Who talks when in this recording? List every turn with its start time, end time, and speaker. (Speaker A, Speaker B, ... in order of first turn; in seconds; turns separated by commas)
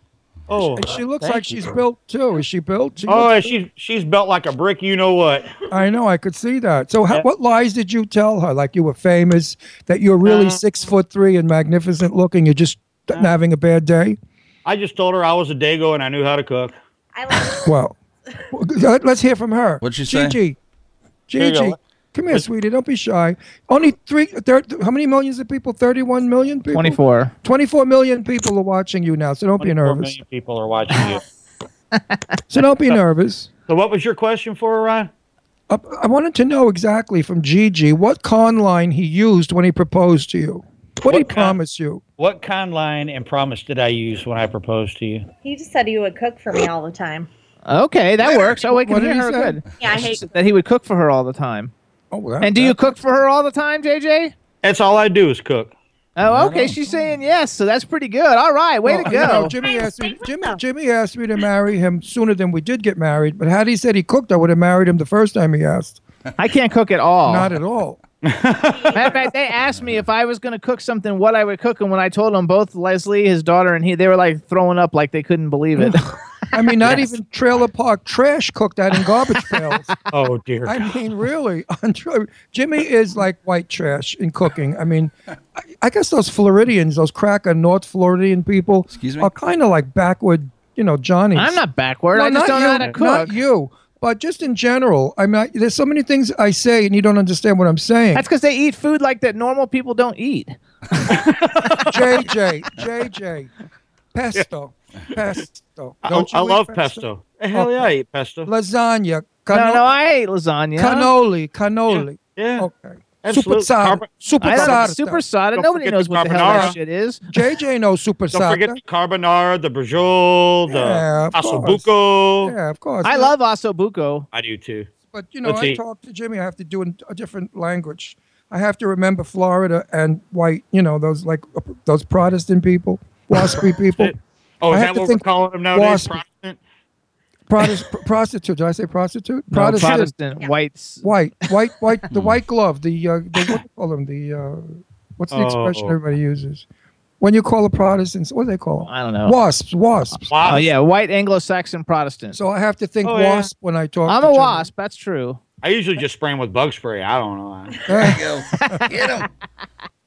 Speaker A: 0.5-1.6, Speaker B: 0.7-3.5, Speaker A: 3.1-5.5, Speaker B: 5.7-14.2, Speaker A: 10.2-10.6, Speaker A: 14.7-16.8, Speaker C: 17.1-17.7, Speaker B: 17.6-18.0, Speaker B: 18.5-20.6, Speaker D: 19.8-20.4, Speaker B: 21.3-30.2, Speaker A: 21.4-21.8, Speaker E: 26.7-27.3, Speaker A: 29.6-31.2, Speaker E: 31.9-32.4, Speaker B: 32.5-33.5, Speaker A: 33.7-35.1, Speaker B: 35.7-42.0, Speaker A: 41.0-41.6, Speaker A: 42.2-45.3, Speaker C: 45.4-47.3, Speaker E: 47.7-51.7, Speaker B: 48.2-49.6, Speaker C: 49.8-50.4, Speaker B: 52.1-52.9, Speaker E: 52.4-54.3, Speaker A: 54.6-55.7, Speaker E: 56.2-59.5, Speaker D: 56.3-56.8, Speaker B: 58.9-66.0, Speaker C: 59.5-60.6, Speaker E: 66.4-67.5, Speaker B: 67.2-68.0, Speaker A: 68.2-68.9, Speaker C: 68.7-69.3, Speaker E: 68.9-76.2, Speaker D: 69.7-70.0, Speaker B: 76.5-79.9, Speaker E: 76.8-77.1, Speaker A: 80.1-81.0, Speaker B: 80.7-91.6, Speaker D: 88.9-89.3, Speaker E: 91.3-93.3, Speaker B: 92.1-98.2, Speaker E: 98.2-101.1, Speaker A: 101.1-102.0, Speaker B: 101.9-103.5, Speaker B: 104.1-107.9, Speaker A: 106.0-108.5, Speaker B: 108.5-109.9, Speaker E: 109.5-111.1, Speaker B: 110.8-115.2, Speaker A: 111.9-112.7, Speaker A: 113.2-114.8, Speaker E: 114.4-117.2, Speaker A: 115.5-116.8, Speaker B: 116.5-116.8, Speaker B: 117.3-118.8, Speaker A: 118.3-122.5, Speaker B: 120.7-121.9, Speaker B: 122.4-123.3, Speaker E: 123.0-124.3, Speaker A: 124.3-124.9, Speaker B: 125.1-134.1, Speaker A: 125.5-125.8, Speaker A: 133.3-136.6, Speaker B: 134.7-136.2, Speaker B: 137.5-140.1, Speaker E: 139.5-141.1, Speaker B: 141.0-146.7, Speaker D: 142.1-142.4, Speaker A: 145.3-146.0, Speaker B: 147.2-150.3, Speaker E: 148.9-149.4, Speaker A: 150.3-150.7, Speaker E: 150.4-152.4, Speaker B: 152.3-154.7, Speaker A: 153.0-153.5, Speaker E: 154.1-155.4, Speaker A: 155.6-157.8, Speaker B: 157.9-158.8, Speaker D: 157.9-159.3, Speaker E: 158.6-158.8